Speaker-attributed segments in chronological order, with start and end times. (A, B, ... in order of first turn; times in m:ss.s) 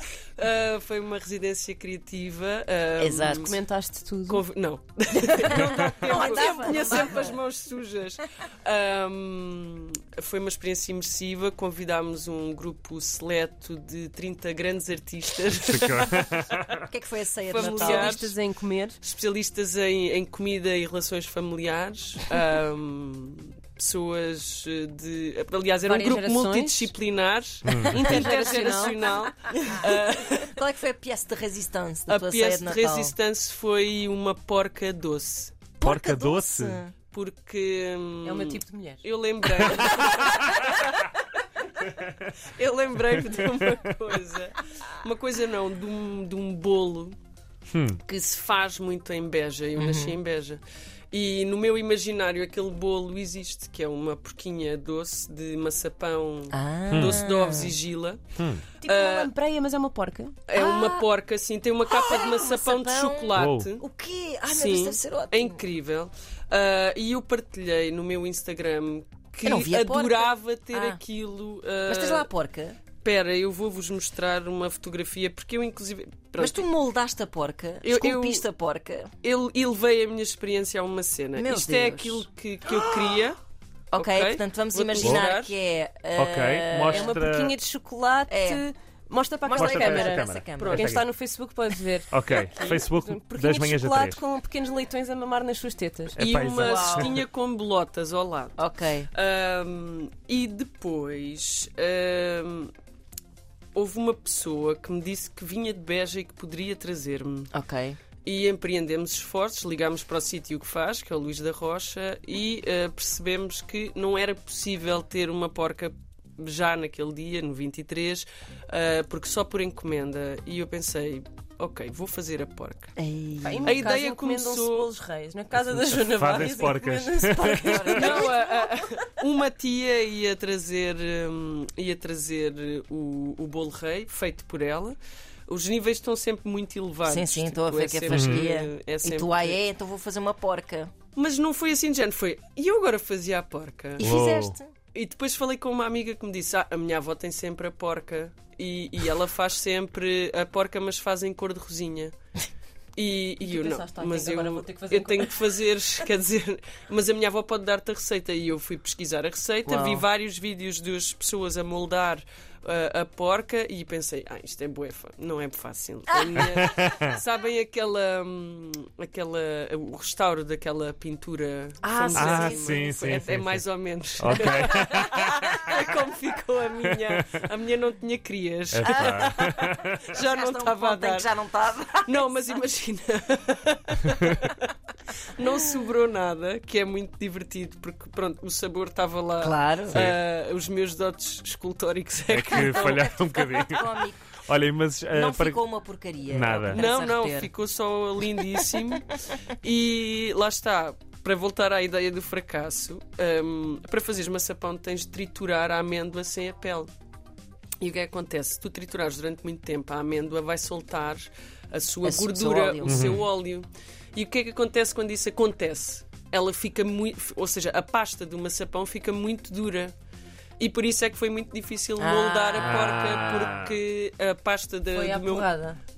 0:00.4-0:03.6 A
0:03.0-0:03.5 B
0:03.4-0:04.4 C
0:04.3-0:16.4 A
0:05.2-0:07.3 C
0:05.5-0:07.4 B
0:15.6-0:16.8 D
0:16.9-0:18.4 B
0:17.5-0:18.4 A
0:17.5-0:19.0 C
0:19.0-0:30.5 A
0:25.8-0:26.9 C
0:27.6-0:28.0 D
0:27.8-0:29.0 C
0:29.8-0:33.1 B
0:32.1-0:35.6 A
0:35.8-0:37.0 B
0:35.8-0:36.8 D
0:37.1-0:41.1 A
0:38.2-0:39.1 C
0:40.1-0:40.6 C
0:42.4-0:47.1 A
0:47.7-0:48.0 D
0:48.0-0:50.6 A
0:49.8-0:50.2 B
0:51.1-0:58.2 A
0:56.5-0:57.7 B
0:56.9-0:57.2 D
0:58.4-0:58.7 D
0:58.8-1:00.4 C
0:58.8-0:59.3 A
1:00.5-1:03.8 A
1:00.6-1:01.0 B
1:01.9-1:05.6 B
1:03.3-1:03.7 D
1:04.5-1:12.3 A
1:09.4-1:11.0 B
1:11.9-1:12.8 B
1:13.0-1:16.7 A
1:16.4-1:19.1 B
1:17.8-1:18.4 A
1:19.2-1:23.4 A
1:21.3-1:22.2 B
1:23.9-1:27.2 B
1:23.9-1:25.5 A
1:25.0-1:25.2 D
1:26.2-1:27.5 D
1:26.9-1:36.2 C
1:28.3-1:28.6 B
1:29.4-1:30.8 B
1:29.5-1:31.0 D
1:30.6-1:30.9 A
1:32.1-1:34.2 D
1:36.2-1:37.2 D
1:36.2-1:42.7 A
1:36.6-1:37.2 B
1:38.6-1:39.1 B
1:43.7-1:47.5 A
1:47.5-1:48.0 B
1:48.2-2:02.9 A
2:03.0-2:03.8 B
2:03.4-2:09.0 C
2:03.6-2:04.9 A
2:05.9-2:07.9 D
2:07.3-2:08.4 B
2:07.9-2:15.0 A
2:15.5-2:19.6 A
2:17.0-2:20.9 B
2:18.1-2:18.4 D
2:21.1-2:24.1 A
2:24.0-2:24.7 B
2:24.0-2:24.6 D
2:24.9-2:32.1 A
2:33.0-3:01.3 A
2:33.4-2:35.4 C
2:39.6-2:40.0 B
2:46.6-2:47.1 D
2:51.8-2:53.3 B
2:52.1-2:53.6 D
2:54.2-2:55.4 D
2:54.3-2:55.6 B
2:58.7-2:59.9 D
2:58.8-3:02.2 B
3:02.0-3:04.6 A
3:05.3-3:13.6 A
3:09.4-3:10.1 B
3:12.3-3:13.8 D
3:12.5-3:14.2 B
3:14.5-3:15.6 D
3:15.1-3:17.5 B
3:16.3-3:16.8 D
3:16.7-3:26.9 A
3:27.8-3:39.9 A
3:32.0-3:33.2 B
3:32.8-3:33.2 D
3:40.6-3:45.5 A
3:42.0-3:42.9 B
3:42.7-3:43.6 D
3:44.9-3:45.8 C